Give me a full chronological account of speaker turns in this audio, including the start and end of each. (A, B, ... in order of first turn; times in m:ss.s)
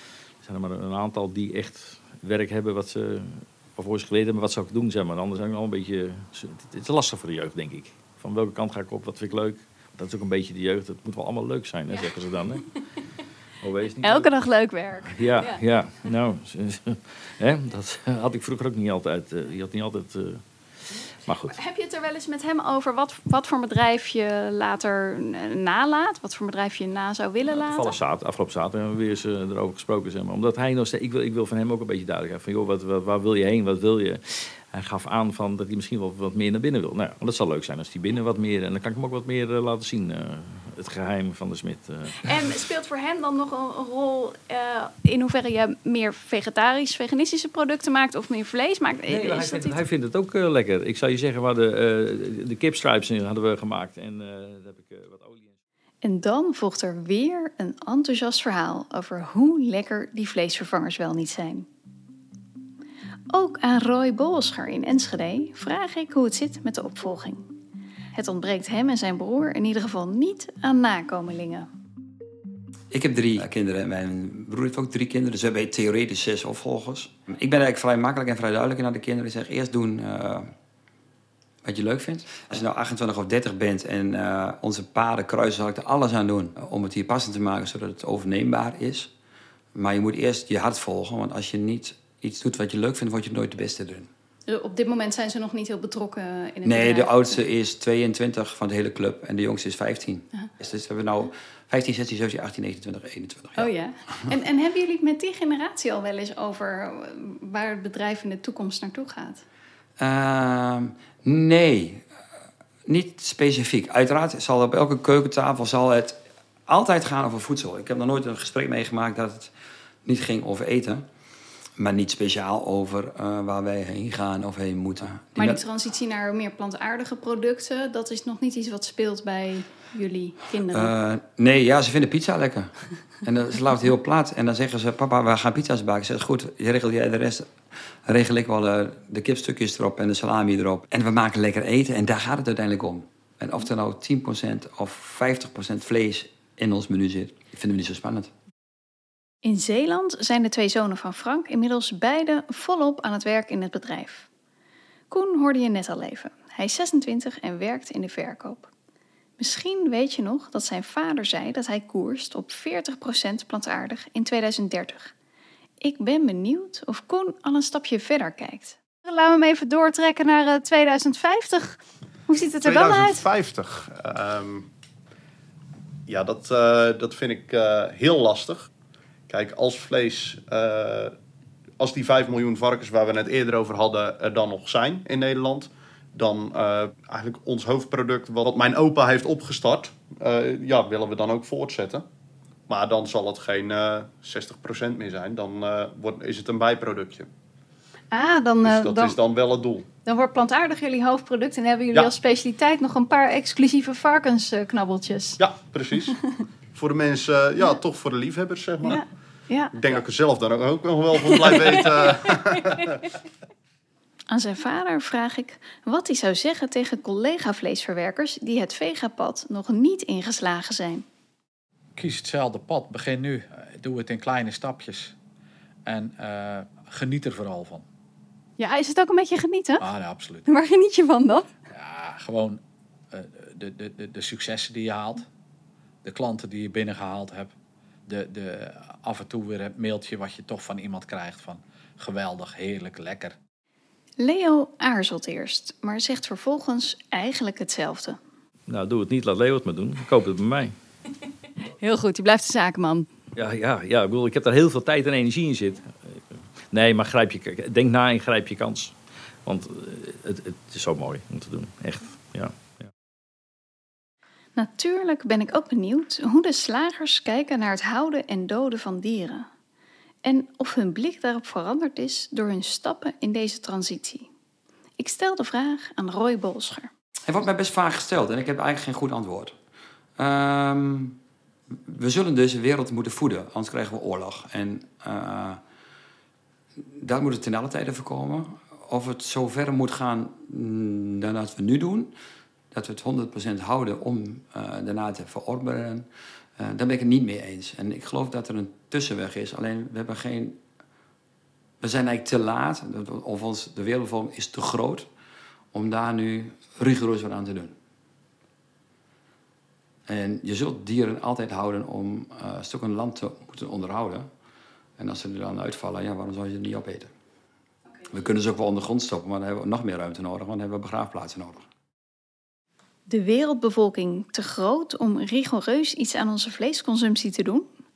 0:00.4-0:12.6 A
0:13.6-0:14.3 A
0:14.0-0:15.6 B
0:15.1-0:20.4 A
0:21.2-0:21.6 A
0:21.5-0:27.9 B
0:27.4-0:42.3 A
0:42.2-0:49.8 B
0:49.1-0:55.5 A
0:56.0-1:01.7 B
1:03.3-1:07.5 B
1:08.1-1:11.7 B
1:12.9-1:20.5 C
1:21.6-1:29.1 C
1:29.7-1:34.1 C
1:34.5-1:37.4 B
1:36.6-1:44.2 C
1:43.6-1:49.4 B
1:50.0-1:52.0 C
1:52.9-1:59.5 C
2:00.0-2:01.0 C
2:01.8-2:05.6 C
2:05.4-2:10.9 B
2:10.6-2:17.5 C
2:18.0-2:28.3 C
2:29.4-2:34.3 B
2:35.1-2:38.7 B
2:39.4-2:45.1 B
2:45.8-2:53.2 B
2:52.6-2:54.7 D
2:56.1-2:58.7 D
2:59.3-3:01.2 D
3:01.8-3:12.0 D
3:12.7-3:17.3 D
3:18.1-3:19.2 B
3:18.6-3:19.9 D
3:20.0-3:25.4 B
3:25.4-3:26.1 D
3:26.7-3:29.0 D
3:28.8-3:29.7 B
3:29.7-3:32.9 D
3:31.2-3:32.5 B
3:34.3-3:41.0 B
3:42.0-3:45.1 E
3:45.8-3:47.8 E
3:48.6-3:49.9 B
3:49.8-3:50.4 E
3:50.4-3:51.5 B
3:51.7-3:52.6 E
3:53.1-3:55.3 E
3:56.0-3:57.5 E
3:58.0-4:03.4 E
4:04.2-4:08.2 B
4:08.7-4:10.7 A
4:11.8-4:13.1 B
4:13.4-4:22.9 A
4:24.6-4:29.5 B
4:30.2-4:34.3 B
4:35.0-4:36.9 B
4:37.2-4:39.5 C
4:40.2-4:41.2 C
4:41.8-4:45.6 C
4:47.0-4:52.1 C
4:52.7-4:56.1 C
4:56.6-5:00.6 C
5:01.8-5:05.1 C
5:05.7-5:07.7 C
5:10.1-5:14.3 C
5:15.0-5:17.1 C
5:18.1-5:21.6 C
5:23.1-5:27.7 B